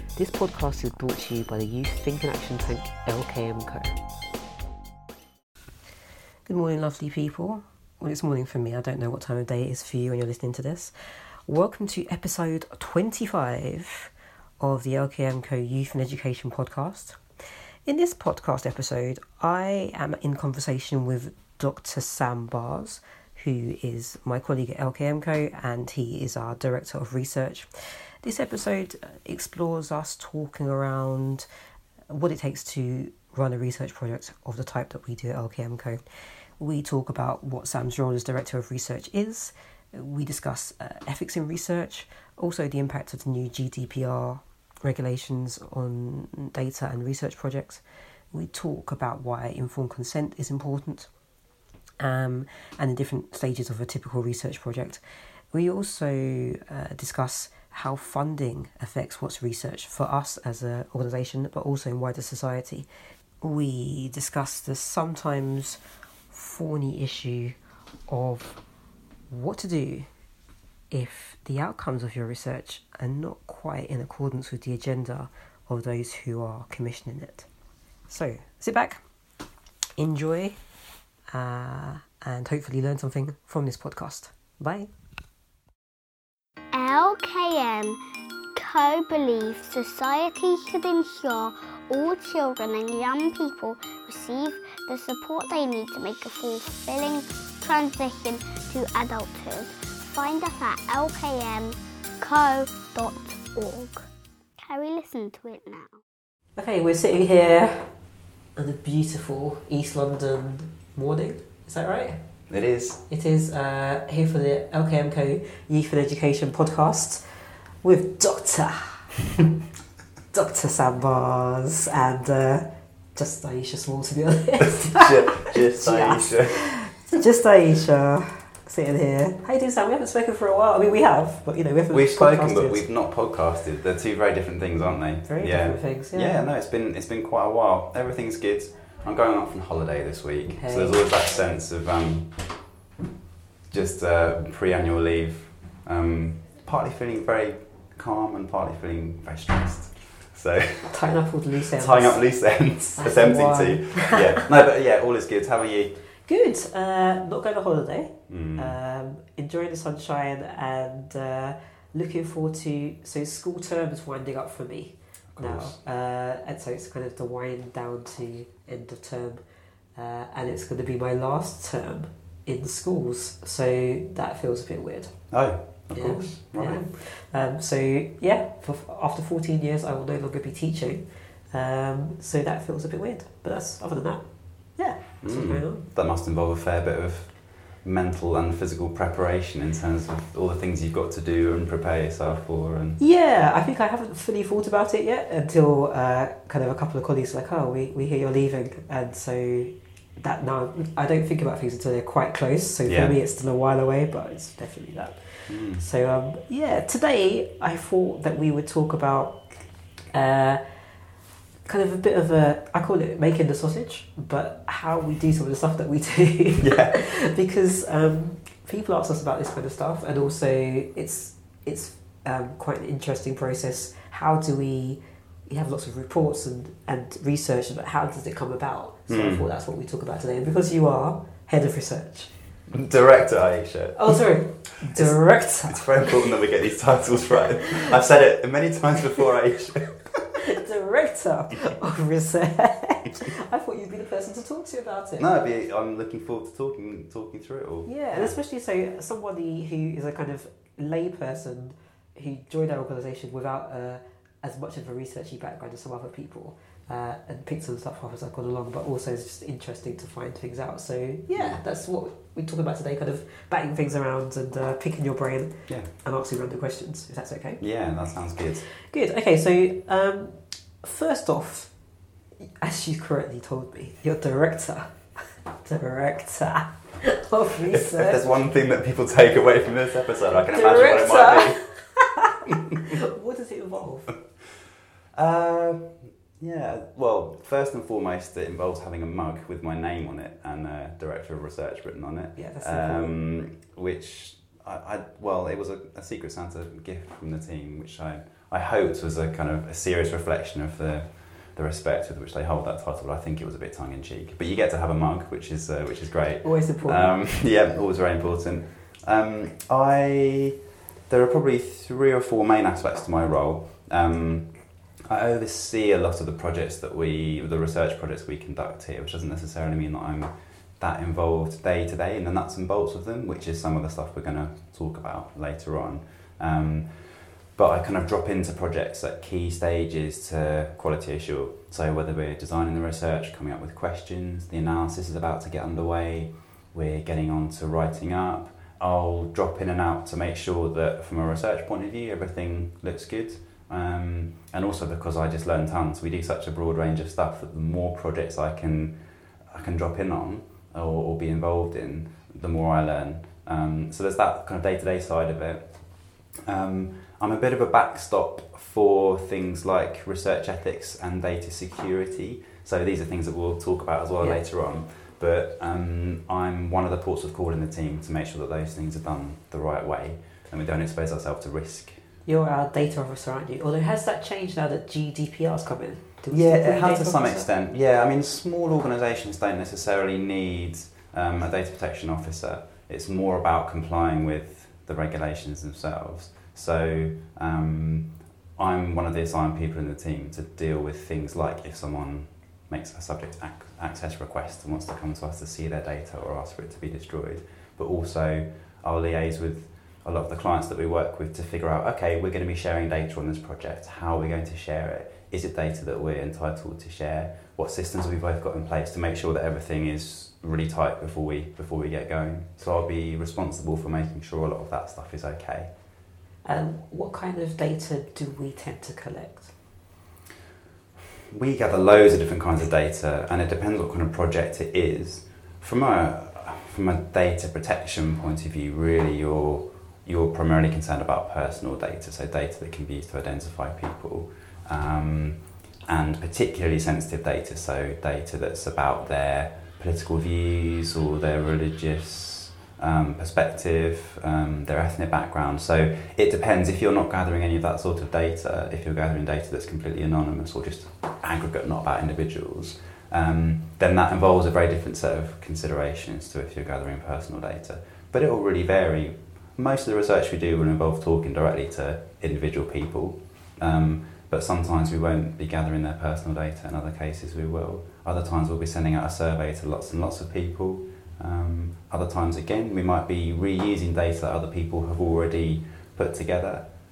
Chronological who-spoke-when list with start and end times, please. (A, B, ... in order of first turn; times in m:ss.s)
0:00.2-0:04.0 A
0:06.5-0:10.9 A
0:11.5-0:17.2 A
0:17.9-0:31.5 A
0:32.1-0:36.0 A
0:36.6-0:51.1 A
0:52.0-0:55.0 A
0:55.5-1:02.9 A
1:03.4-1:05.8 A
1:06.3-1:07.6 A
1:08.1-1:08.6 A
1:09.3-1:10.1 A
1:10.9-1:17.5 A
1:18.1-1:19.0 A
1:20.0-1:20.6 A
1:21.3-1:24.9 A
1:26.7-1:28.0 B
1:28.6-1:44.1 B
1:44.6-1:46.0 B
1:46.6-1:47.9 A
1:48.6-1:52.2 A
1:52.5-1:53.0 C
1:53.1-1:59.1 A
2:00.3-2:12.8 A
2:04.6-2:06.7 C
2:11.9-2:22.4 C
2:15.3-2:16.4 A
2:20.6-2:21.0 A
2:23.7-2:31.1 C
2:30.9-2:32.2 A
2:31.8-2:36.0 C
2:33.0-2:34.4 A
2:36.3-2:49.4 A
2:38.3-2:38.8 C
2:45.4-2:45.8 C
2:50.0-2:55.2 A
2:55.3-2:56.9 C
2:55.9-3:04.2 A
3:04.8-3:05.9 A
3:05.2-3:13.0 C
3:13.0-3:30.9 A
3:22.9-3:23.2 C
3:25.5-3:25.8 C
3:31.6-3:52.3 A
3:36.6-3:37.0 C
3:49.1-3:49.5 C
3:52.7-3:54.2 C
3:54.0-3:56.2 A
3:54.9-4:00.3 C
4:00.4-4:05.3 A
4:05.2-4:08.4 C
4:07.9-4:27.6 A
4:21.3-4:21.6 C
4:27.6-4:28.6 C
4:28.7-4:31.7 A
4:32.4-4:38.2 A
4:37.7-4:41.6 C
4:40.4-4:44.2 A
4:45.1-5:10.6 C
4:52.4-4:53.1 A
5:06.4-5:07.2 A
5:11.1-6:12.0 C
6:12.3-6:17.5 A
6:16.3-6:55.7 C
6:56.4-6:59.5 A
7:01.3-7:56.7 C